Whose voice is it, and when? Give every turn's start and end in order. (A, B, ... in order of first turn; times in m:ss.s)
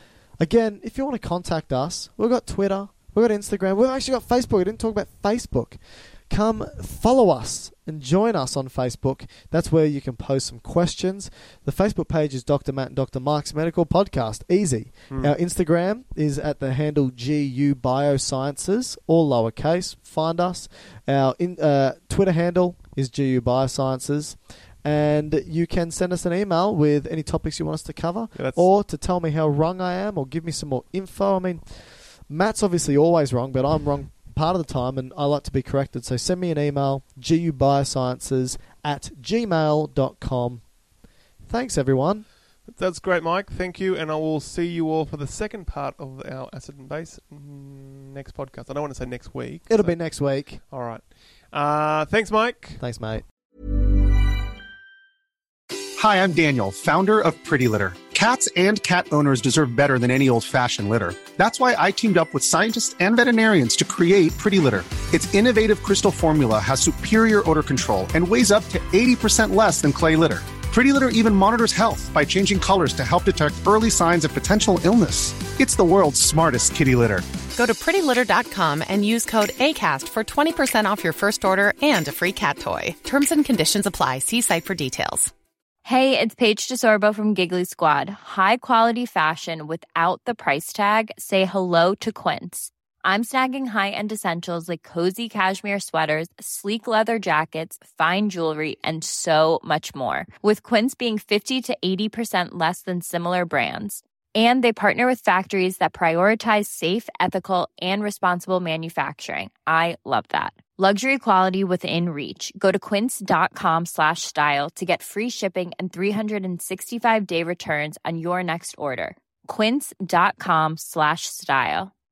0:00.4-0:40.8 A
0:15.1-0:15.4 B
0:28.3-0:28.6 B
0:41.4-0:42.2 A
0:42.6-0:52.8 B
0:49.7-0:50.6 A
0:52.8-0:53.2 A
0:56.0-1:17.3 C
1:17.5-1:25.3 D
1:25.8-2:01.9 E